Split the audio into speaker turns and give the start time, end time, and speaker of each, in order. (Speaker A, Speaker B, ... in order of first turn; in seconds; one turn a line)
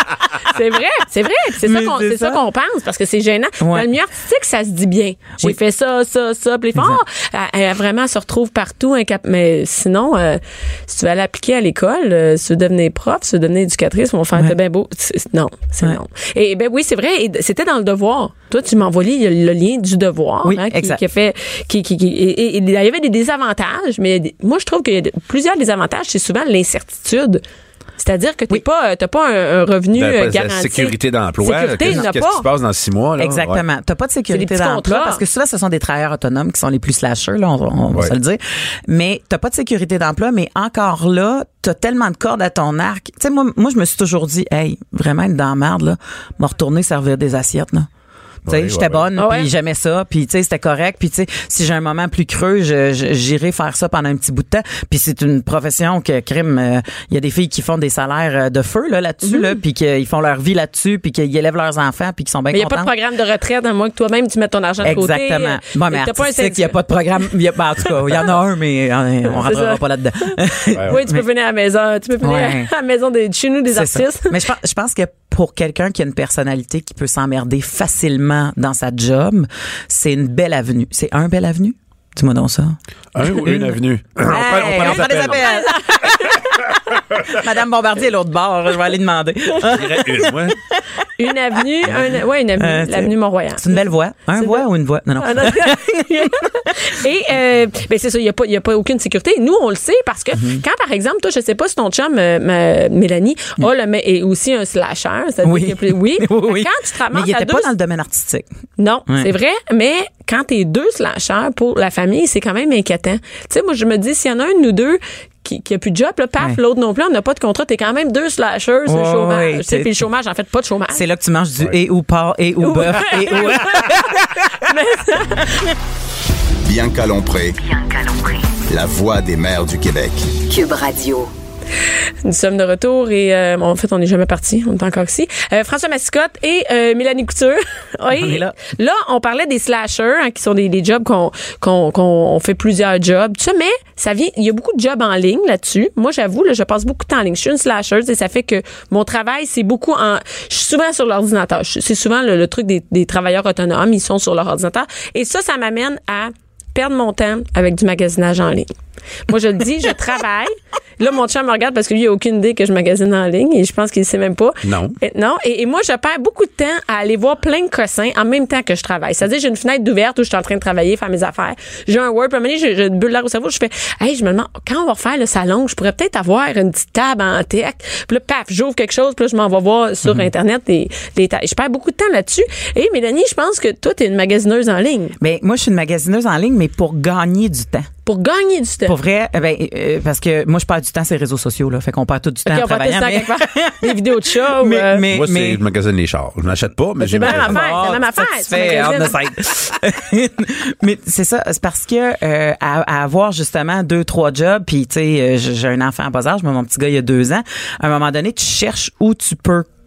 Speaker A: 0.4-27.4
Speaker B: 1.6-2.4
Speaker B: 3.6-3.9
Speaker B: 6.8-7.0
Speaker B: 20.4-21.0
Speaker A: 28.0-32.5
Speaker C: 29.9-33.6
Speaker B: 33.2-47.9
Speaker A: 34.3-35.2
Speaker C: 48.5-49.1
Speaker B: 48.5-62.9
Speaker A: 49.2-49.5
Speaker A: 59.2-59.5
Speaker A: 62.5-66.8
Speaker B: 64.8-71.2
Speaker A: 69.3-74.4
Speaker B: 72.2-72.7
Speaker B: 73.7-86.7
Speaker C: 83.2-85.5
Speaker A: 84.3-86.6
Speaker B: 87.2-91.0
Speaker C: 89.7-90.6
Speaker A: 91.2-93.8
Speaker B: 91.5-92.0
Speaker B: 92.6-96.8
Speaker A: 94.3-94.7
Speaker A: 95.2-107.7
Speaker B: 100.3-100.6
Speaker B: 105.4-108.5
Speaker A: 108.8-121.0
Speaker B: 109.1-109.3
Speaker B: 118.9-119.9
Speaker B: 120.9-124.3
Speaker A: 122.6-125.7
Speaker D: 126.6-127.6
Speaker E: 127.6-128.6
Speaker D: 128.7-130.4
Speaker E: 130.5-131.3
Speaker A: 132.2-158.7
Speaker B: 138.1-138.6
Speaker A: 159.3-185.2
Speaker C: 164.6-165.0
Speaker B: 180.0-180.3
Speaker B: 185.2-187.9
Speaker A: 188.1-189.0
Speaker B: 188.9-195.6
Speaker A: 192.5-195.1
Speaker C: 195.1-197.8
Speaker A: 197.0-199.2
Speaker B: 197.1-209.7